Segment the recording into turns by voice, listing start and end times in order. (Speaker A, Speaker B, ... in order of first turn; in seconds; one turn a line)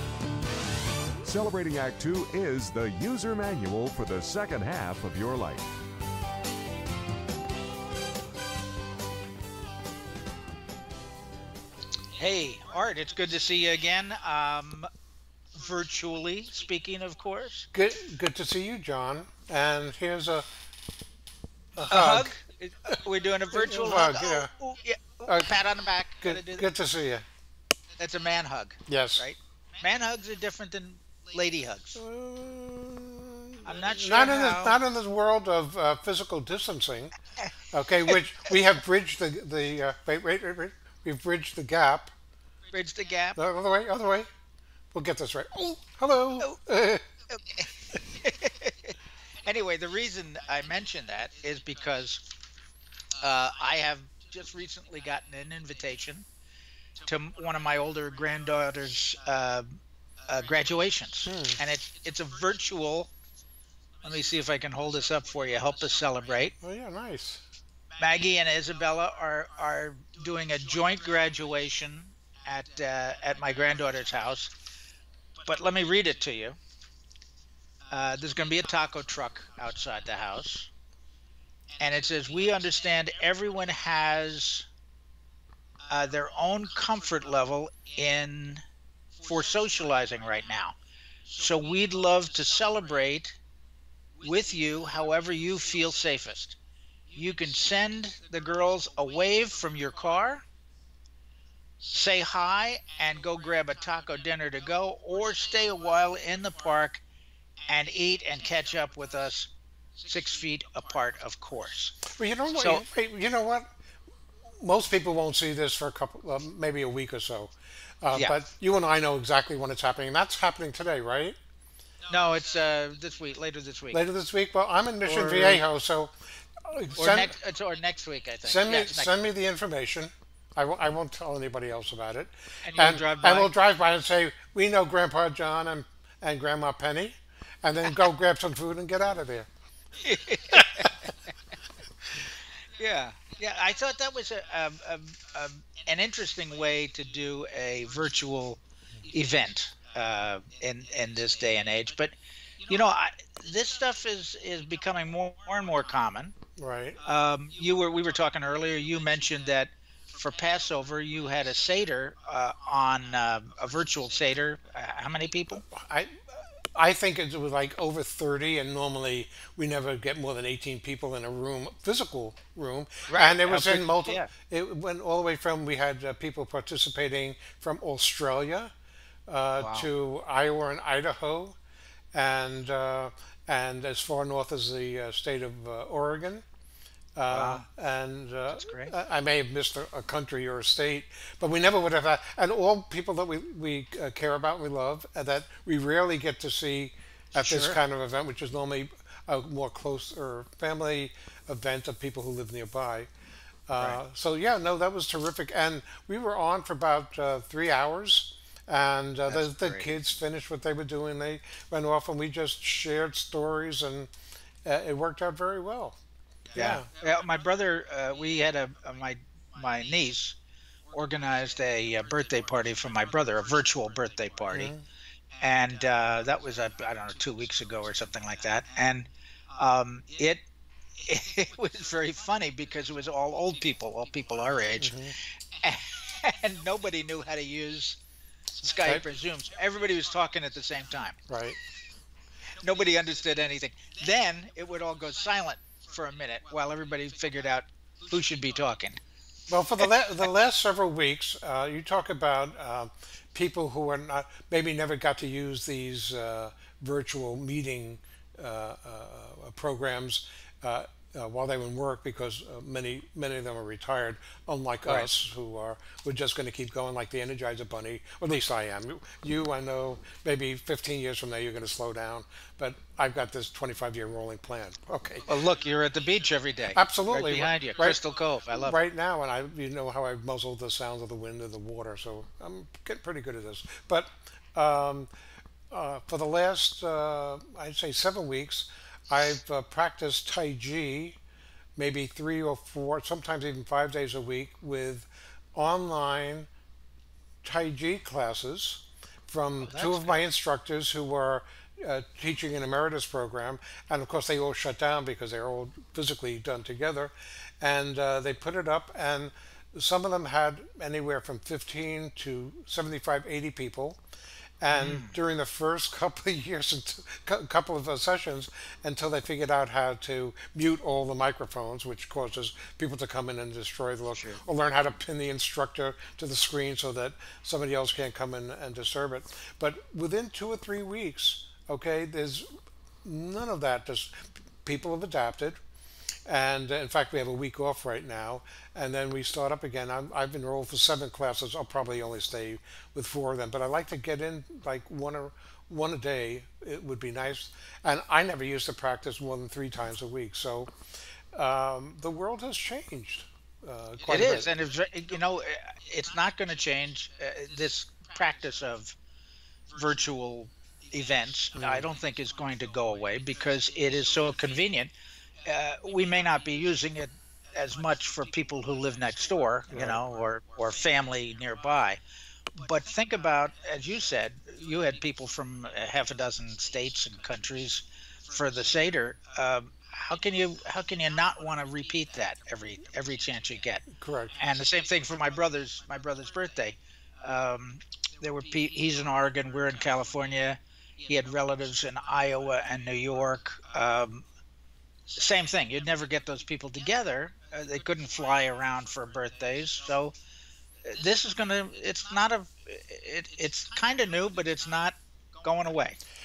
Speaker A: 1.2-5.8
Speaker B: 12.2-14.9
Speaker B: 15.6-17.7
Speaker C: 17.7-20.5
Speaker C: 21.8-22.4
Speaker B: 21.9-26.7
Speaker C: 23.5-24.5
Speaker C: 25.3-25.6
Speaker C: 26.2-27.2
Speaker B: 28.0-32.0
Speaker C: 28.9-29.3
Speaker C: 32.0-37.1
Speaker B: 33.6-34.8
Speaker C: 37.7-42.1
Speaker B: 42.7-43.4
Speaker C: 43.4-44.3
Speaker C: 44.9-47.0
Speaker B: 47.3-52.2
Speaker B: 53.2-56.3
Speaker B: 57.0-63.1
Speaker C: 61.3-61.6
Speaker B: 64.0-66.5
Speaker C: 66.6-67.4
Speaker B: 68.0-74.5
Speaker B: 75.4-76.6
Speaker B: 77.9-80.7
Speaker B: 81.8-84.7
Speaker B: 85.9-88.6
Speaker B: 89.2-90.8
Speaker B: 91.3-93.4
Speaker B: 94.2-96.6
Speaker B: 97.1-100.5
Speaker B: 101.8-107.0
Speaker B: 107.7-109.5
Speaker B: 110.0-112.0
Speaker C: 112.2-113.7
Speaker B: 112.5-112.8
Speaker C: 114.6-121.4
Speaker B: 122.1-124.0
Speaker C: 123.9-127.3
Speaker B: 125.0-125.6
Speaker B: 126.9-129.1
Speaker C: 128.4-139.5
Speaker B: 132.6-133.5
Speaker B: 140.0-141.1
Speaker B: 142.8-152.2
Speaker B: 152.7-156.3
Speaker C: 156.6-157.0
Speaker B: 157.0-165.6
Speaker C: 165.6-178.7
Speaker B: 173.1-174.3
Speaker C: 179.3-181.6
Speaker B: 179.6-179.9
Speaker C: 182.1-186.4
Speaker C: 187.2-203.1
Speaker B: 187.3-187.7
Speaker B: 188.5-188.9
Speaker B: 197.3-197.8
Speaker C: 203.7-214.1
Speaker B: 209.3-209.9
Speaker C: 214.7-216.0
Speaker C: 216.5-216.9
Speaker B: 216.5-220.4
Speaker B: 220.9-224.7
Speaker C: 224.5-224.8
Speaker B: 225.4-230.4
Speaker B: 231.0-235.0
Speaker C: 234.8-235.2
Speaker B: 235.6-238.0
Speaker B: 238.6-241.2
Speaker C: 238.8-239.1
Speaker C: 241.3-241.6
Speaker B: 242.6-249.0
Speaker C: 249.5-275.4
Speaker B: 264.9-265.1
Speaker B: 275.3-278.8
Speaker C: 276.7-278.0
Speaker C: 278.5-285.1
Speaker C: 285.7-291.2
Speaker C: 291.8-296.5
Speaker C: 297.4-314.0
Speaker B: 299.6-300.2
Speaker C: 314.6-332.5
Speaker B: 314.7-315.1
Speaker B: 324.1-324.4
Speaker C: 333.0-335.6
Speaker C: 336.3-350.7
Speaker C: 351.3-354.5
Speaker B: 354.0-359.0
Speaker B: 359.7-364.9
Speaker C: 361.6-361.9
Speaker B: 365.4-372.0
Speaker C: 369.7-370.0
Speaker B: 372.6-383.9
Speaker C: 383.9-384.4
Speaker B: 384.4-394.3
Speaker B: 395.1-400.1
Speaker B: 400.9-406.0